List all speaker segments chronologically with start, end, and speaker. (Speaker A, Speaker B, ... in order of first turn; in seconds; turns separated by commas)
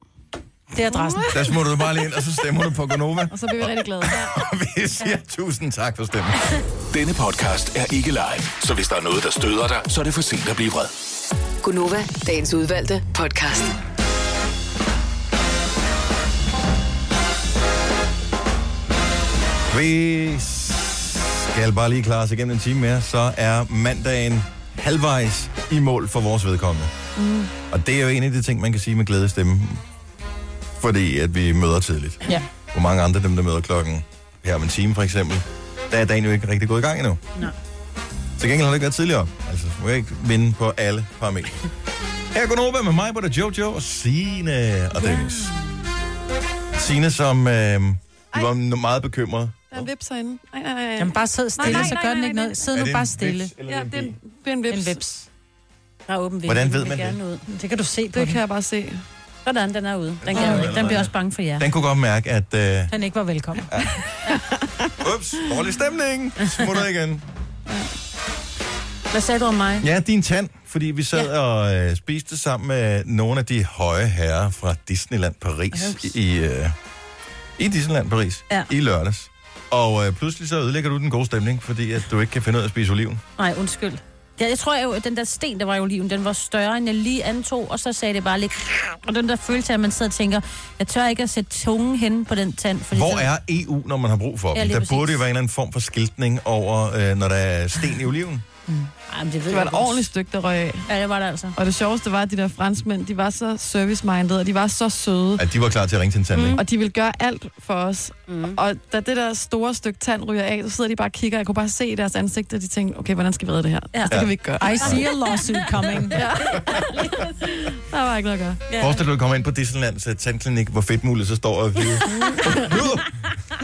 Speaker A: 0.7-1.3, Speaker B: 0.9-1.4, Speaker C: 1.3-6.6, Speaker B: 3.3-4.2, Speaker D: 6.9-10.9, Speaker E: 11.6-13.7, Speaker C: 19.7-26.9, Speaker B: 27.2-27.5, Speaker C: 27.7-29.8, Speaker C: 30.8-37.2, Speaker C: 38.4-41.6, Speaker C: 42.3-45.5, Speaker C: 46.7-49.9, Speaker B: 49.7-52.6, Speaker A: 51.0-53.5, Speaker C: 51.6-52.0, Speaker C: 52.7-54.2, Speaker B: 53.7-55.0, Speaker A: 54.7-55.2, Speaker F: 56.1-57.4, Speaker C: 56.4-57.2, Speaker A: 57.5-58.4, Speaker B: 58.1-59.0, Speaker F: 59.4-61.7, Speaker C: 60.2-62.9, Speaker A: 60.3-61.0, Speaker A: 62.9-63.6, Speaker C: 63.7-64.0, Speaker C: 65.0-67.2, Speaker F: 69.1-69.9, Speaker C: 69.8-76.8, Speaker F: 75.7-76.1, Speaker C: 77.6-83.2, Speaker F: 83.4-93.3, Speaker C: 92.9-98.4, Speaker F: 94.5-95.2, Speaker F: 99.1-100.1, Speaker B: 99.5-100.9, Speaker F: 100.9-101.5, Speaker B: 101.5-105.4, Speaker C: 105.4-106.6, Speaker F: 106.3-106.6, Speaker B: 106.6-114.9, Speaker F: 108.3-108.6, Speaker F: 113.9-114.2, Speaker C: 114.1-115.0, Speaker A: 114.6-116.2, Speaker F: 115.9-117.3, Speaker B: 116.1-118.6, Speaker C: 116.6-116.8, Speaker F: 118.7-119.0, Speaker C: 118.8-123.3, Speaker B: 122.1-122.7